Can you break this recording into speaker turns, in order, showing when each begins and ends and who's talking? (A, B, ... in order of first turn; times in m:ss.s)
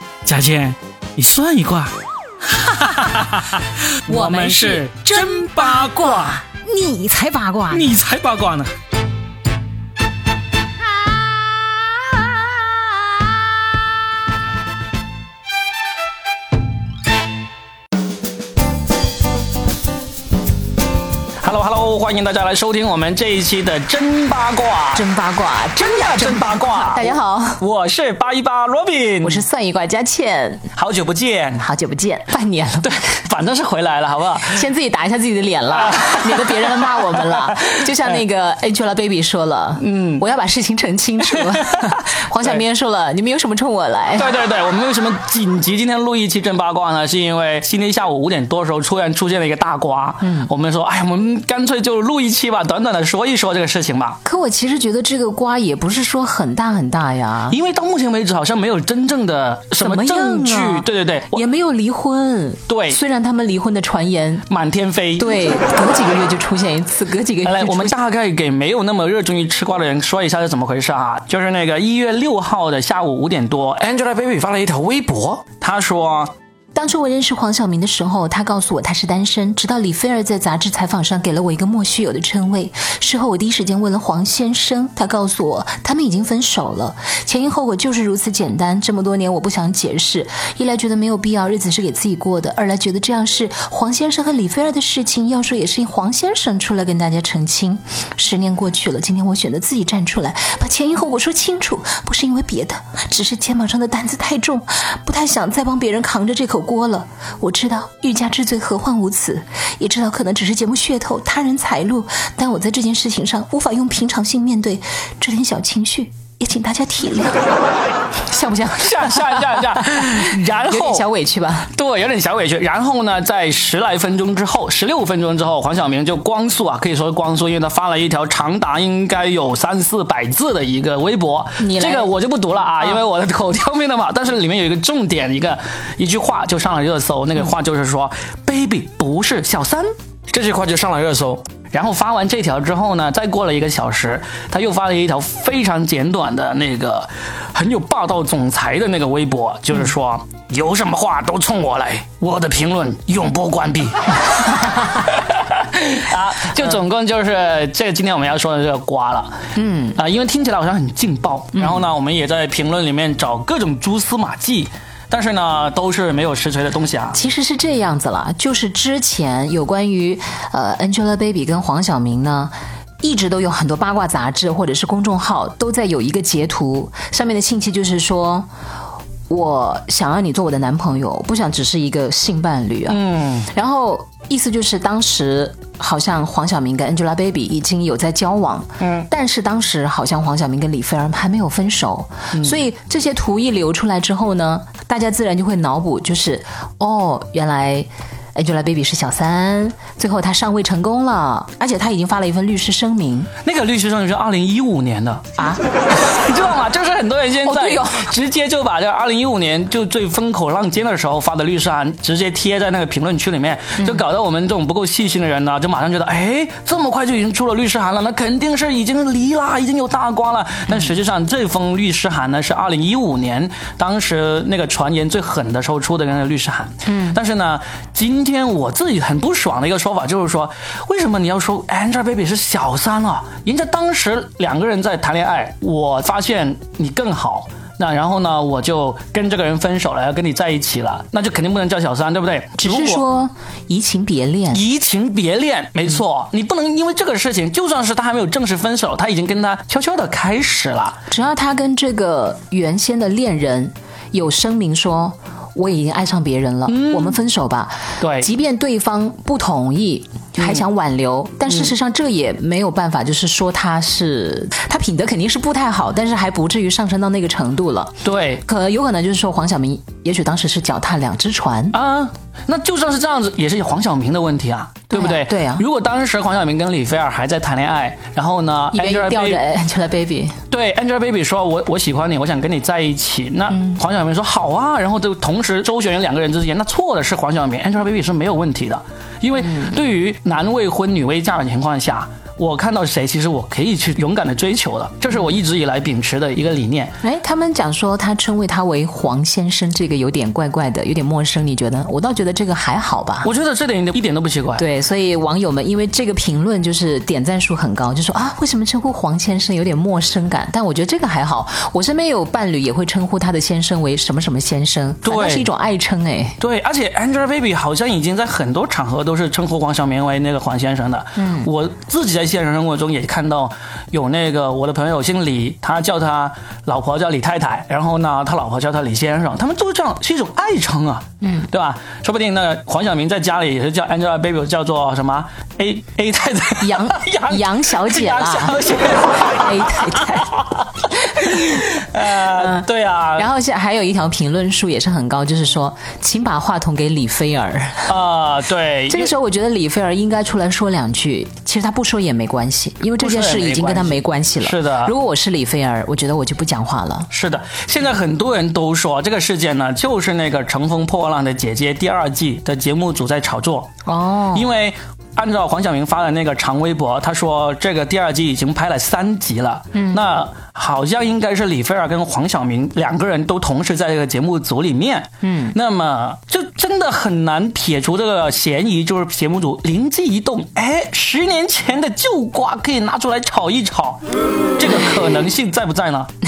0:00.2-0:01.9 A
0:02.5-0:06.4 A
0:04.1-0:07.9 B
0:07.7-0:08.7 A
0:21.4-0:25.0 A
0:24.9-0:27.6 B
0:25.8-0:29.4 A
0:29.2-0:30.7 B
0:30.7-0:31.6 A
0:31.6-0:33.0 B
0:32.8-0:34.6 A
0:34.5-0:44.3 B
0:35.7-0:37.6 A
0:39.8-0:40.2 A
0:41.3-0:41.8 A
0:44.1-0:54.2 A
0:50.2-0:50.5 B
0:54.2-0:57.6 B
0:57.5-1:01.4 A
0:59.8-1:04.5 B
1:02.7-1:03.0 A
1:04.5-1:05.4 A
1:05.2-1:07.9 B
1:07.4-1:16.3 A
1:16.7-1:57.5 B
1:58.2-2:01.7 B
1:58.7-2:01.1 A
2:01.7-2:39.4 A
2:11.6-2:12.1 B
2:39.6-2:40.0 B
2:39.9-2:47.2 A
2:47.1-2:58.5 B
2:59.3-3:23.3 B
3:02.9-3:03.5 A
3:08.8-3:09.1 A
3:12.3-3:12.6 A
3:23.4-3:25.3 A
3:25.4-3:25.6 B
3:25.9-4:03.0 A
3:27.4-3:28.1 B
3:46.8-3:47.2 B
4:02.6-4:04.6 B
4:04.5-4:11.0 A
4:11.1-4:27.9 B
4:16.7-4:17.2 A
4:18.0-4:18.3 A
4:20.4-4:20.6 A
4:28.0-4:28.4 A
4:28.4-4:31.8 B
4:31.7-4:39.4 A
4:34.9-4:35.6 B
4:38.7-4:40.4 B
4:40.5-4:56.9 A
4:57.0-5:03.3 B
5:03.2-5:04.6 A
5:04.6-5:16.4 B
5:15.0-5:15.5 A
5:16.4-5:43.3 A
5:21.2-5:21.5 B
5:31.2-5:31.5 B
5:36.6-5:40.4 B
5:42.2-5:47.9 B
5:47.8-5:49.1 A
5:48.9-5:57.1 B
5:53.0-5:54.9 A
5:57.1-6:03.7 A
6:03.8-6:04.5 B
6:04.3-6:24.0 A
6:09.7-6:10.0 B
6:15.2-6:15.6 B
6:24.6-6:26.1 A